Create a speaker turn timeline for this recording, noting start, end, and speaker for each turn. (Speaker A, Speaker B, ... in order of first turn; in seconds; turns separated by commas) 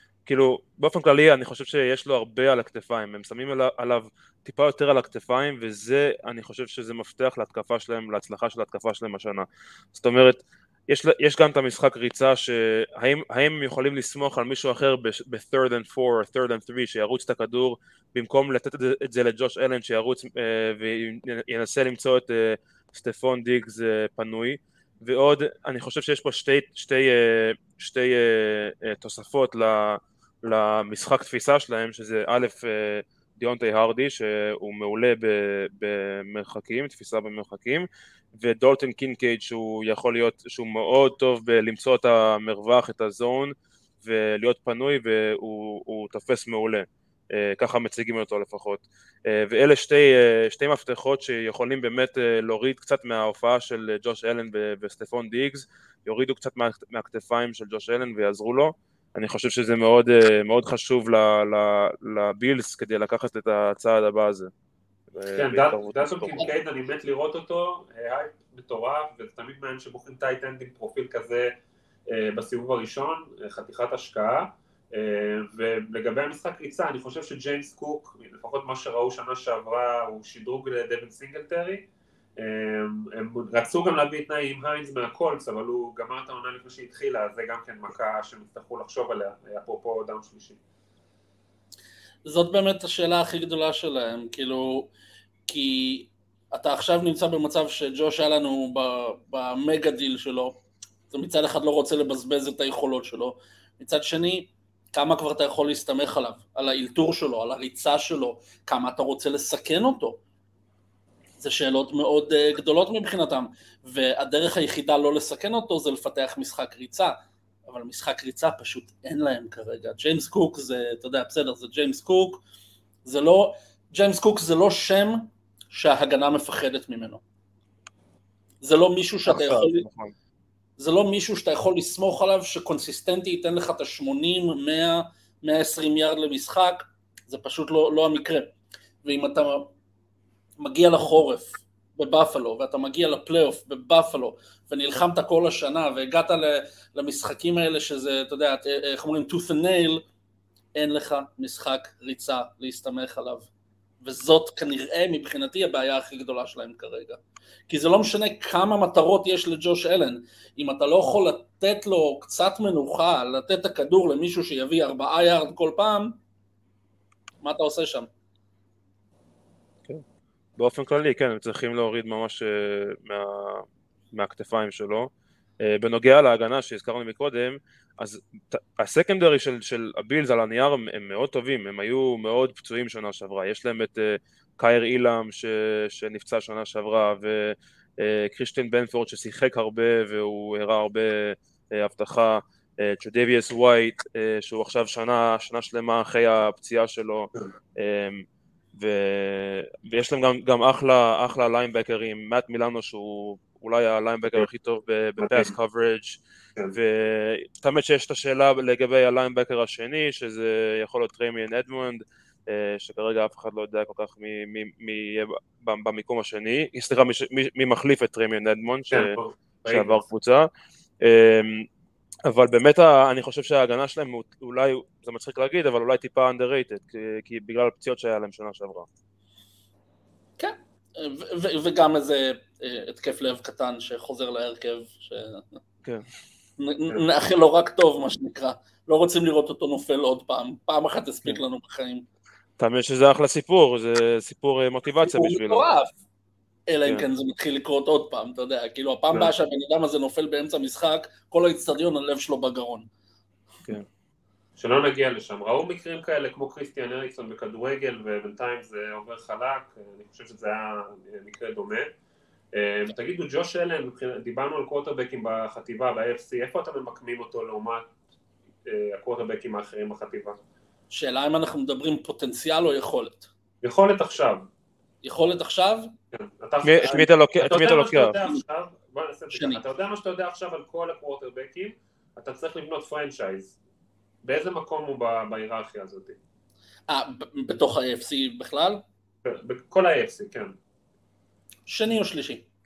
Speaker A: 0.2-64.5, Speaker A: 65.1-66.5, Speaker B: 65.3-71.5, Speaker B: 72.1-81.8, Speaker B: 82.4-90.6, Speaker C: 92.2-94.9, Speaker C: 95.5-100.5, Speaker C: 101.1-110.2, Speaker C: 111.4-122.4, Speaker C: 123.0-127.2, Speaker C: 128.6-129.8, Speaker A: 129.2-130.1, Speaker C: 130.8-138.5, Speaker C: 139.0-139.7, Speaker C: 140.6-150.0, Speaker C: 150.7-153.5, Speaker C: 154.0-166.2, Speaker C: 167.4-168.1, Speaker A: 170.6-175.1, Speaker A: 175.6-198.2, Speaker A: 198.8-206.2, Speaker B: 205.2-205.5, Speaker A: 206.7-219.2, Speaker B: 218.9-220.0, Speaker A: 219.7-220.5, Speaker A: 221.0-221.7, Speaker A: 222.2-228.9, Speaker C: 230.4-235.6, Speaker C: 236.6-242.0, Speaker A: 242.6-245.7, Speaker C: 245.0-245.9, Speaker C: 246.7-252.9, Speaker B: 254.6-261.9, Speaker B: 262.5-267.9, Speaker B: 268.6-270.4, Speaker C: 270.9-273.3, Speaker B: 273.6-274.5, Speaker C: 275.0-275.9, Speaker B: 276.1-283.6, Speaker A: 276.6-278.2, Speaker C: 279.3-279.6, Speaker B: 284.2-286.2, Speaker C: 286.9-288.8, Speaker B: 289.2-290.5, Speaker C: 291.7-292.4